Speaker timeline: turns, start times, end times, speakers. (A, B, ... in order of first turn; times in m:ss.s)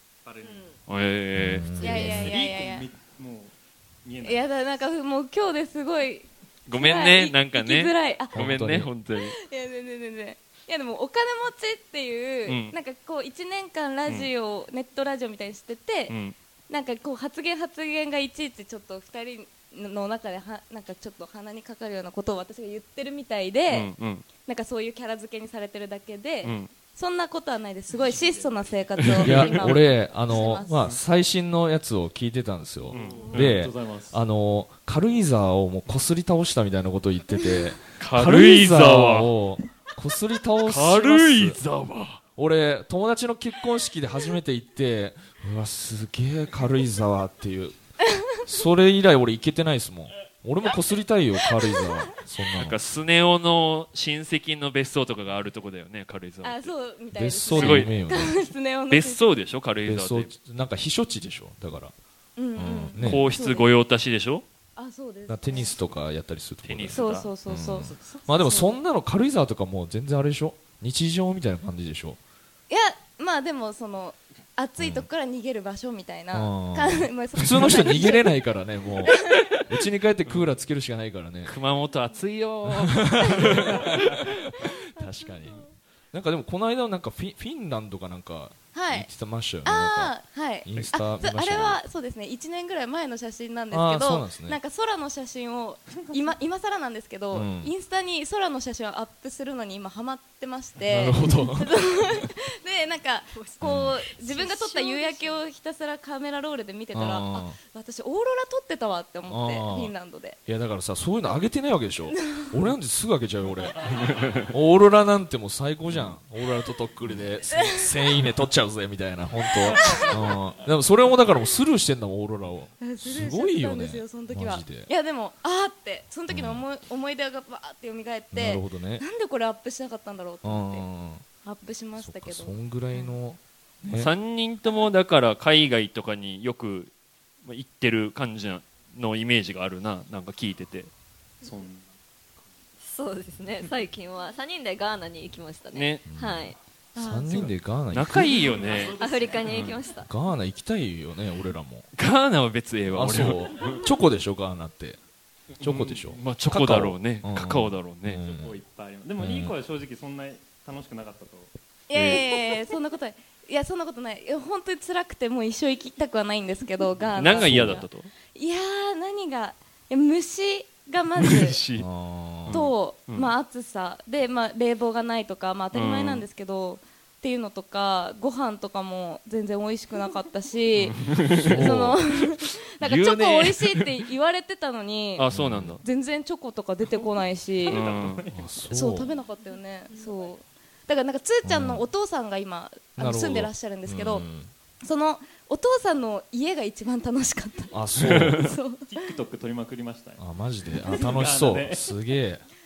0:00.2-0:00.8 A
0:00.9-0:01.7 B
0:01.4-0:02.3 C
0:01.8-0:02.9 D
0:01.8-0:04.5 A
0:04.2-0:08.4 D
0:06.7-0:09.3 B
0:08.3-0:08.9 C
0:09.1-0:16.2 D
0:12.4-0:12.8 B
0:16.1-0:16.3 B
0:16.7-0:23.9 D
0:23.7-0:24.2 B
0:24.4-0:30.9 D
0:26.4-0:26.7 B
0:27.9-0:29.7 A
0:29.0-0:29.6 B
0:29.2-0:41.6 C
0:32.8-0:34.2 A
0:32.9-0:33.5 B
0:38.0-0:39.3 B
0:40.6-0:42.2 B
0:42.4-0:47.7 C
0:48.4-0:52.8 C
0:52.5-0:56.7 B
0:56.4-0:59.2 D
0:57.1-0:58.4 C
0:57.5-0:57.9 B
0:58.9-1:00.3 B
0:59.8-1:01.9 C
1:02.4-1:03.7 D
1:02.5-1:03.2 C
1:03.0-1:04.4 B
1:04.8-1:05.8 D
1:05.3-1:12.2 C
1:06.6-1:07.3 B
1:06.9-1:08.8 D
1:07.8-1:08.5 A
1:12.7-1:18.4 D
1:14.8-1:15.1 C
1:16.3-1:21.5 C
1:19.0-1:19.4 D
1:20.2-1:20.5 B
1:21.5-1:24.2 B
1:23.0-1:24.3 C
1:24.9-1:25.6 C
1:26.1-1:31.8 C
1:28.7-1:29.1 D
1:29.6-1:50.4 D
1:33.7-1:34.6 C
1:37.3-1:37.7 C
1:40.9-1:42.1 C
1:43.3-1:45.4 E
1:43.6-1:44.0 C
1:46.9-1:47.6 C
1:49.3-1:49.9 C
1:50.5-1:53.8 C
1:54.5-2:04.9 C
1:55.9-1:56.2 B
1:57.5-1:58.3 D
1:59.6-2:00.0 D
2:02.8-2:10.8 D
2:06.3-2:06.6 C
2:08.3-2:09.0 C
2:10.4-2:11.2 C
2:11.4-2:12.5 D
2:12.0-2:14.1 C
2:13.9-2:16.9 B
2:17.4-2:20.9 B
2:21.4-2:22.6 A
2:22.8-2:26.6 E
2:25.7-2:26.0 B
2:26.0-2:28.5 C
2:27.0-2:27.5 D
2:27.3-2:29.8 B
2:28.3-2:29.8 A
2:29.0-2:30.1 E
2:30.0-2:31.9 C
2:31.9-2:33.8 B
2:32.9-2:35.0 C
2:35.6-2:38.2 B
2:35.6-2:38.6 C
2:38.2-2:41.5 A
2:39.2-2:39.6 C
2:41.9-2:51.6 D
2:41.9-2:42.2 C
2:47.2-2:48.1 B
2:47.2-2:47.8 C
2:51.2-2:51.8 B
2:51.8-2:52.6 C
2:52.4-2:53.3 B
2:52.5-3:05.3 D
2:55.7-2:56.2 B
3:00.8-3:01.8 B
3:01.3-3:02.0 C
3:02.8-3:03.9 B
3:05.2-3:05.8 B
3:05.3-3:05.8 C
3:05.8-3:07.9 D
3:06.8-3:08.8 A
3:07.7-3:08.2 B
3:08.3-3:09.1 C
3:08.7-3:14.3 D
3:11.4-3:11.9 C
3:13.0-3:14.5 C
3:14.8-3:17.8 D
3:17.7-3:18.4 C
3:18.0-3:18.5 B
3:18.4-3:19.2 D
3:18.8-3:20.2 A
3:20.2-3:22.4 C
3:20.8-3:21.9 A